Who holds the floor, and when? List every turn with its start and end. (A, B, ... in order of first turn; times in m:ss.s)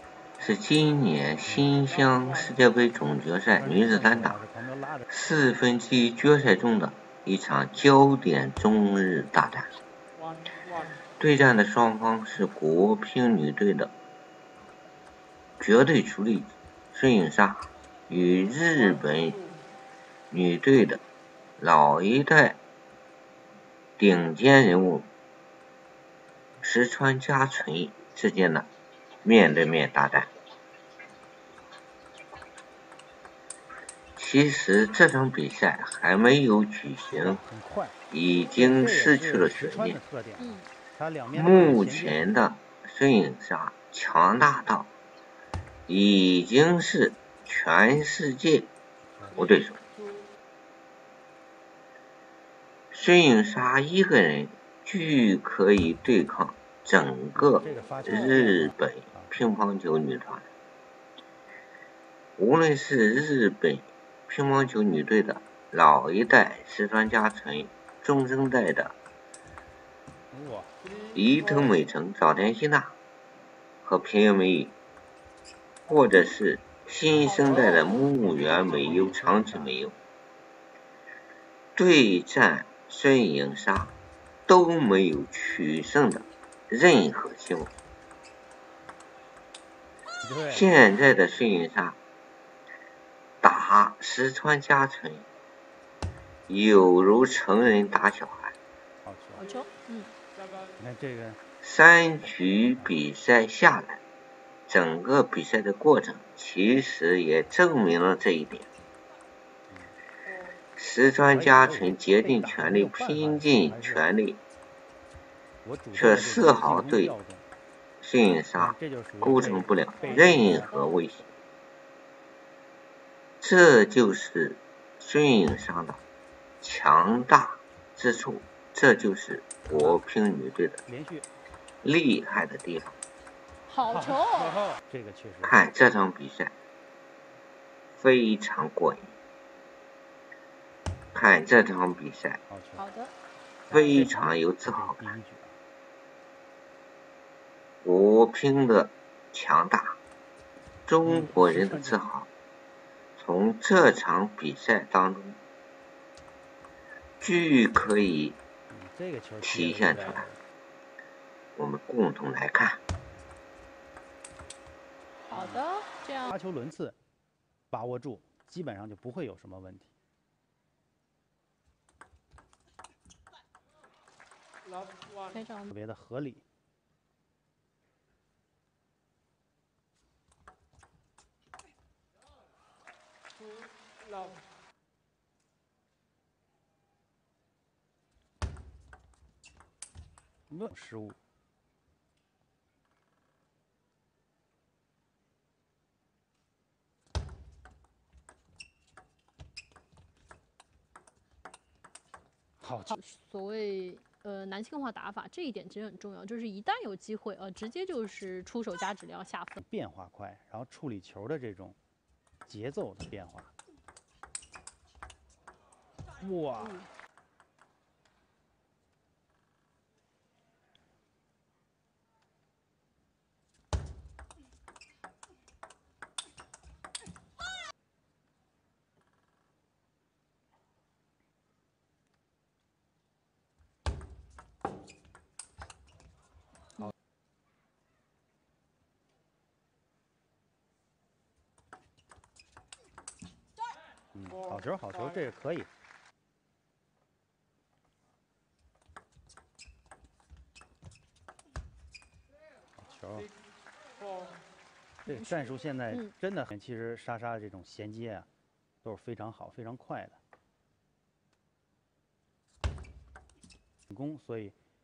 0:00.4-0:04.4 A
0:01.5-0:01.8 B
0:03.5-0:05.1 B
0:05.1-0:09.7 A
0:11.0-0:13.9 A
0:15.6-0:19.4 A
0:20.3-0:21.0 A
0:21.6-0:22.6 A
0:24.0-0:25.1 A
0:26.6-0:28.7 A
0:29.2-0:30.3 A
0:34.2-0:37.4 A
0:37.2-0:38.0 B
0:38.1-0:40.0 A
0:38.5-0:42.3 B
0:40.4-0:40.7 C
0:41.3-0:44.9 A
0:45.9-0:48.7 A
0:49.1-0:49.4 B
0:49.4-0:49.8 A
0:52.9-1:00.5 A
0:57.3-0:59.3 B
1:02.4-1:09.0 A
1:10.3-1:10.8 B
1:11.1-1:13.0 A
1:13.8-1:14.7 A
1:15.9-1:20.0 A
1:17.1-1:19.8 B
1:17.2-1:18.0 C
1:21.8-1:23.9 A
1:24.5-1:27.7 A
1:30.2-1:30.8 B
1:30.5-1:32.0 A
1:33.4-1:35.3 A
1:36.5-1:38.6 A
1:39.0-1:39.5 B
1:39.4-1:40.1 C
1:40.8-1:41.4 B
1:41.6-1:44.0 A
1:42.8-1:43.1 B
1:44.7-1:48.7 A
1:49.7-1:50.0 B
1:50.8-1:54.4 A
1:51.2-1:54.1 B
1:55.6-1:57.5 B
1:55.9-1:57.2 A
1:58.0-2:01.3 A
1:58.6-2:00.8 B
2:00.0-2:01.0 C
2:03.4-2:06.0 A
2:06.6-2:10.8 A
2:09.7-2:10.1 B
2:10.9-2:11.3 B
2:11.8-2:13.0 A
2:13.7-2:14.6 C
2:13.9-2:15.6 B
2:15.4-2:16.6 A
2:18.0-2:19.1 A
2:21.1-2:22.4 A
2:22.5-2:22.9 B
2:22.8-2:23.2 C
2:23.7-2:25.2 A
2:23.7-2:25.6 B
2:27.8-2:30.0 A
2:30.9-2:32.3 A
2:31.0-2:32.0 B
2:33.2-2:35.4 A
2:37.2-2:38.4 A
2:38.7-2:40.4 B
2:39.4-2:40.3 A
2:41.6-2:42.8 A
2:45.3-2:46.4 C
2:45.3-2:45.7 B
2:46.3-2:47.0 B
2:47.7-2:49.9 B
2:55.3-2:55.7 C
2:55.7-2:56.4 B
3:10.5-3:11.2 B
3:22.6-3:23.0 B
3:22.9-3:29.6 C
3:29.6-3:31.8 B
3:32.5-3:33.5 B
3:36.2-3:36.9 B
4:04.1-4:05.7 B
4:12.8-4:13.3 B
4:15.0-4:18.3 B
4:15.1-4:16.1 C
4:18.8-4:20.2 B
4:23.9-4:24.6 B